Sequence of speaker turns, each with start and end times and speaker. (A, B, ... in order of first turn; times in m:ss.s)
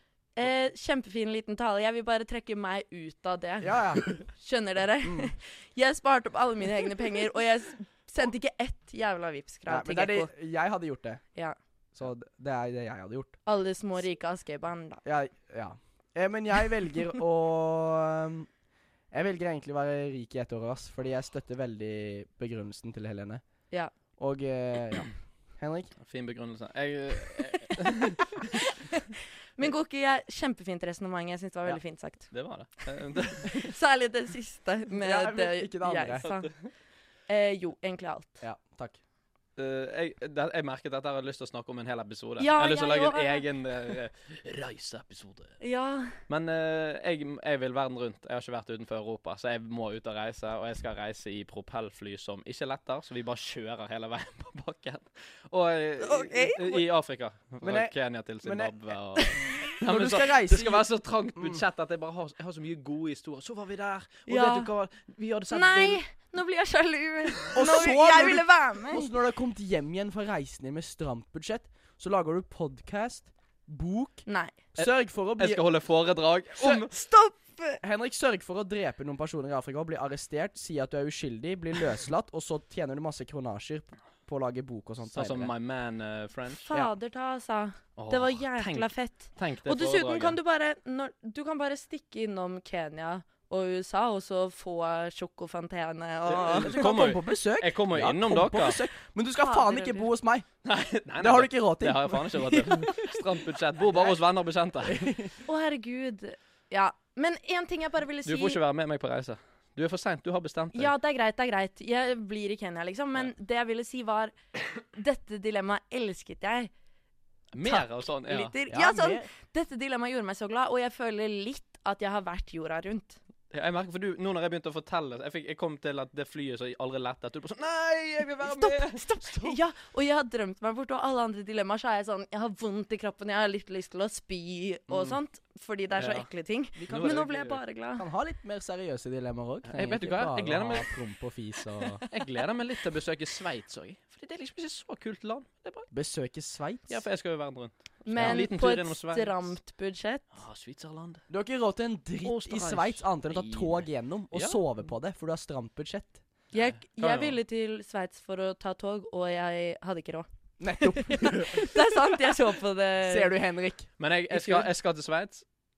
0:00.4-0:10.3 A
0:03.6-0:04.1 B
0:05.0-0:05.3 B
0:09.7-0:11.2 B
0:11.9-0:13.4 B
0:13.4-0:15.0 A
0:15.0-0:18.5 B
0:19.1-0:23.4 B
0:24.2-0:25.9 B
0:26.0-0:28.5 C
0:28.7-0:29.0 A
0:29.6-0:32.3 A
0:32.3-0:33.7 C
0:33.4-0:36.5 A
0:35.0-0:36.3 B
0:36.2-0:36.5 C
0:37.3-0:38.4 A
0:38.4-0:39.0 B
0:39.6-0:45.6 C
0:42.4-0:43.4 A
0:45.6-0:46.2 A
0:46.3-1:06.0 C
0:56.0-0:56.8 A
0:57.6-0:58.7 B
0:59.8-1:01.6 B
1:04.3-1:04.7 A
1:05.5-1:09.1 A
1:07.5-1:15.6 B
1:14.3-1:14.6 A
1:14.8-1:16.9 C
1:16.6-1:17.8 A
1:17.8-1:25.5 B
1:25.1-1:26.7 C
1:26.6-1:36.8 A
1:28.0-1:30.4 C
1:36.3-1:38.8 C
1:36.4-1:40.5 B
1:39.4-1:40.1 A
1:40.6-1:45.2 C
1:41.2-1:42.6 B
1:42.8-1:43.1 A
1:44.8-1:45.3 B
1:45.4-1:48.6 A
1:48.2-1:50.9 C
1:50.7-1:54.4 A
1:54.9-1:56.7 A
1:57.5-1:58.5 C
1:57.6-2:03.2 A
1:58.7-1:59.3 B
2:03.5-2:09.6 C
2:08.4-2:18.1 A
2:16.0-2:16.3 C
2:16.8-2:17.2 B
2:16.8-2:17.6 C
2:18.0-2:22.0 B
2:19.7-2:20.9 C
2:22.1-2:25.9 C
2:25.9-2:27.0 B
2:26.9-2:29.6 C
2:28.0-2:30.2 A
2:28.1-2:28.5 B
2:30.3-2:31.2 C
2:31.3-2:36.2 B
2:32.2-2:34.6 C
2:36.5-2:43.3 A
2:36.6-2:37.4 C
2:40.6-2:41.7 B
2:43.0-2:43.9 B
2:44.0-2:45.4 C
2:44.3-2:44.7 A